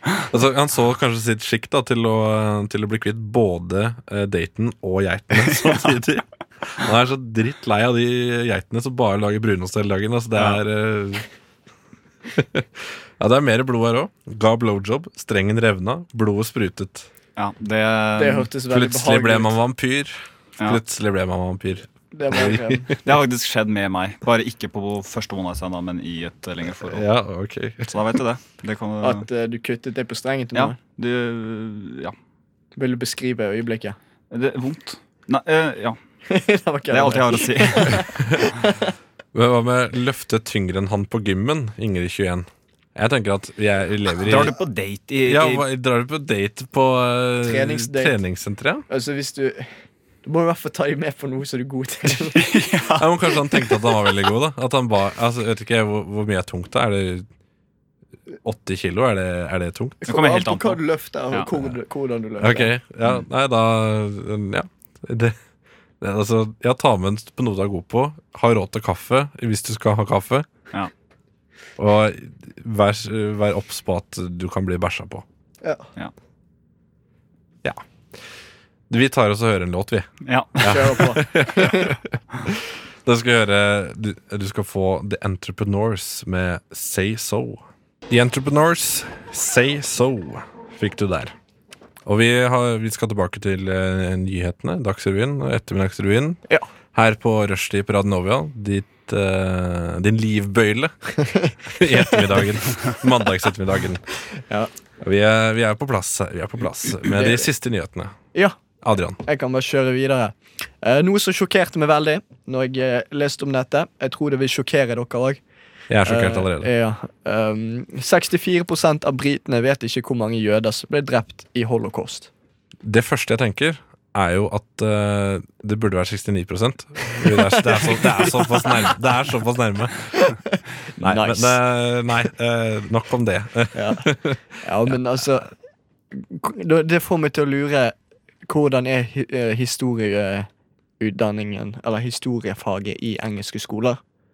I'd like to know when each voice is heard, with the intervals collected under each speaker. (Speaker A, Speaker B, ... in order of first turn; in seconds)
Speaker A: 0.3-11.2, 12.3-17.1, 18.7-23.0, 26.8-28.1, 38.0-38.5, 39.3-44.5, 45.3-48.9, 53.0-57.3, 58.4-60.0, 62.4-65.4, 66.0-70.5, 71.8-75.2, 78.9-91.3, 92.0-96.4, 96.9-101.0, 101.7-104.0, 105.0-108.2, 108.8-109.2, 115.9-116.7, 122.8-130.2, 131.0-135.0
Speaker B: 10.3-10.6, 17.4-18.5, 23.0-27.1, 27.9-29.3, 30.5-32.1, 34.3-36.0, 36.9-38.0, 44.2-45.6, 52.3-54.0, 60.1-61.5, 80.2-81.1
Speaker C: 18.2-19.6, 22.1-22.9, 29.0-30.8, 32.8-34.0, 36.3-38.9, 47.4-48.2, 48.9-49.7, 50.2-52.5, 60.0-62.7, 80.7-82.0, 101.2-102.3, 107.0-107.5, 109.2-115.4, 116.0-122.3, 127.3-128.4, 131.0-131.6, 133.7-135.5, 136.1-138.0, 138.5-140.5, 141.0-144.0